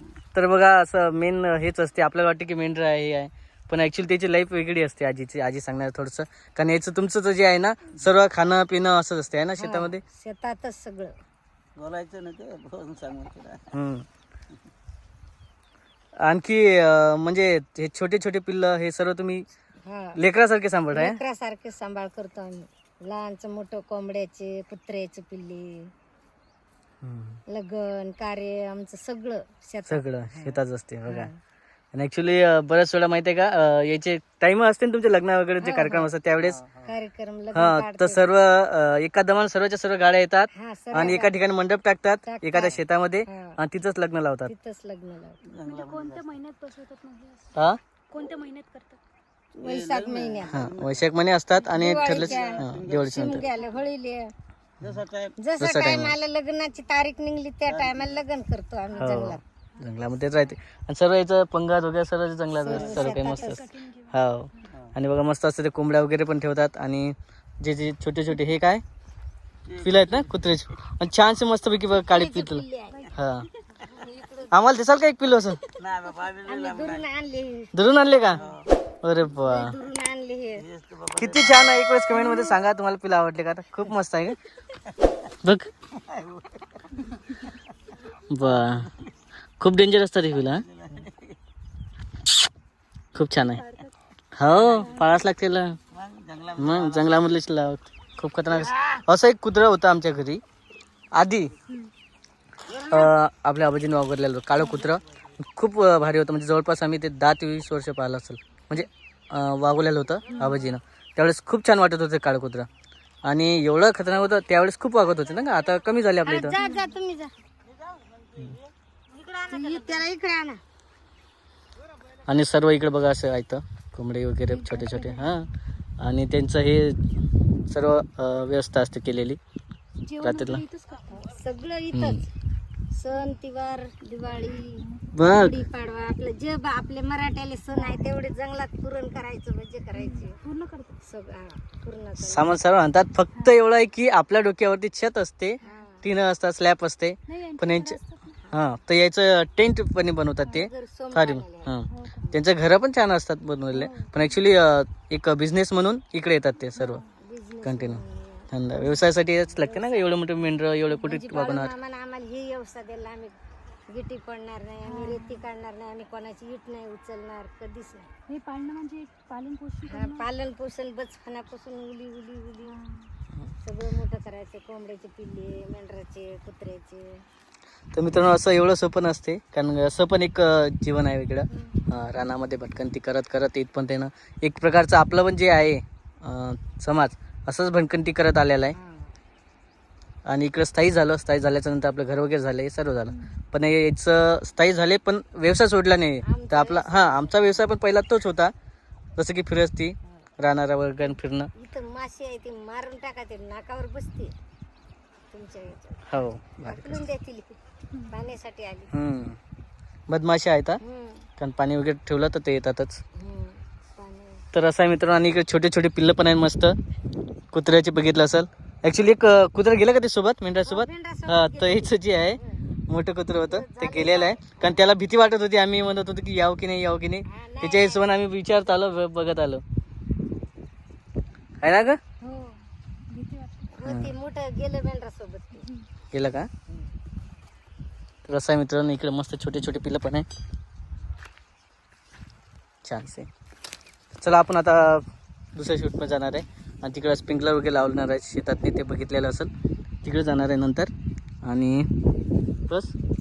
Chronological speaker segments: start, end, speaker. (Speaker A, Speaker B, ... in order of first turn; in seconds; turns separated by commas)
Speaker A: 0.3-10.0, Speaker B: 9.6-11.1, Speaker C: 11.8-13.7, Speaker A: 13.7-14.1, Speaker A: 16.2-19.4, Speaker B: 19.8-20.2, Speaker A: 20.1-21.2, Speaker B: 20.9-25.9, Speaker A: 27.0-27.4, Speaker B: 27.5-31.4, Speaker A: 29.9-31.3, Speaker A: 31.9-36.6, Speaker B: 35.6-36.1, Speaker B: 36.8-38.3, Speaker A: 37.5-44.5, Speaker B: 40.5-41.3, Speaker B: 42.2-43.6, Speaker B: 44.5-45.4, Speaker C: 45.6-46.1, Speaker D: 45.6-47.6, Speaker D: 48.1-49.0, Speaker B: 49.5-50.7, Speaker C: 49.7-50.9, Speaker A: 50.5-53.5, Speaker B: 51.7-54.3, Speaker C: 52.0-53.0, Speaker C: 54.8-55.3, Speaker B: 55.4-59.4, Speaker A: 55.6-56.1, Speaker D: 58.9-60.5, Speaker A: 59.0-68.8, Speaker B: 62.5-63.6, Speaker D: 62.9-64.8, Speaker A: 69.8-73.5, Speaker B: 71.9-73.1, Speaker D: 72.9-73.4, Speaker B: 73.8-74.6, Speaker A: 74.5-75.6, Speaker B: 75.8-77.7, Speaker C: 75.8-77.0, Speaker A: 77.7-78.4, Speaker A: 79.0-79.7, Speaker B: 79.2-80.7, Speaker C: 80.8-81.4, Speaker A: 81.1-84.4, Speaker A: 85.4-85.7, Speaker C: 86.1-86.4, Speaker A: 88.3-89.0, Speaker A: 89.6-90.7, Speaker C: 90.8-91.2, Speaker A: 93.1-93.6, Speaker D: 93.5-93.9, Speaker A: 94.3-95.8, Speaker D: 94.6-95.2, Speaker C: 96.0-97.0, Speaker A: 96.5-100.4, Speaker A: 101.1-101.5, Speaker A: 102.7-112.7, Speaker D: 104.6-104.8, Speaker B: 110.3-110.7, Speaker D: 110.3-110.7, Speaker A: 113.2-116.5, Speaker B: 116.2-117.3, Speaker D: 116.5-116.9, Speaker B: 119.2-120.6, Speaker A: 122.3-125.4, Speaker D: 124.5-125.5, Speaker A: 126.0-127.0, Speaker A: 127.7-129.4, Speaker D: 130.0-131.3, Speaker A: 130.2-130.6, Speaker B: 131.2-132.2, Speaker A: 131.9-132.2, Speaker B: 132.9-140.4, Speaker D: 134.7-135.0, Speaker A: 135.1-135.6, Speaker D: 137.8-138.0, Speaker D: 139.9-141.0, Speaker B: 141.0-142.5, Speaker A: 142.2-148.0, Speaker D: 145.6-145.8, Speaker B: 145.6-146.1, Speaker D: 147.3-148.4, Speaker A: 148.5-157.0, Speaker B: 150.5-151.7, Speaker D: 151.9-152.3, Speaker D: 153.7-154.3, Speaker D: 156.8-157.1, Speaker B: 157.2-158.5, Speaker A: 157.6-161.7, Speaker B: 159.4-160.2, Speaker B: 160.9-163.3, Speaker B: 163.9-168.1, Speaker D: 164.8-165.4, Speaker D: 168.3-170.3, Speaker B: 169.8-172.8, Speaker D: 172.6-173.1, Speaker B: 173.6-177.2, Speaker A: 177.9-188.8, Speaker B: 181.5-181.8, Speaker B: 188.7-189.1, Speaker A: 190.2-198.5, Speaker D: 193.1-193.3, Speaker B: 196.2-197.7, Speaker A: 199.2-201.5, Speaker B: 201.5-204.3, Speaker B: 205.3-207.6, Speaker A: 206.1-207.1, Speaker D: 207.9-208.2, Speaker B: 208.1-208.9, Speaker A: 208.9-209.4, Speaker A: 210.1-210.8, Speaker B: 210.8-211.3, Speaker A: 211.4-213.0, Speaker B: 213.2-214.4, Speaker A: 214.5-216.8, Speaker A: 217.5-229.6, Speaker B: 220.6-222.6, Speaker B: 223.5-224.8, Speaker B: 227.3-228.1, Speaker A: 231.6-232.0, Speaker D: 232.2-233.7, Speaker B: 233.8-235.7, Speaker A: 233.8-234.1, Speaker A: 236.1-236.5, Speaker A: 238.3-240.2, Speaker A: 242.8-243.3, Speaker A: 244.2-245.0, Speaker A: 245.5-249.5, Speaker A: 250.0-250.9, Speaker A: 251.4-251.9, Speaker A: 252.7-252.9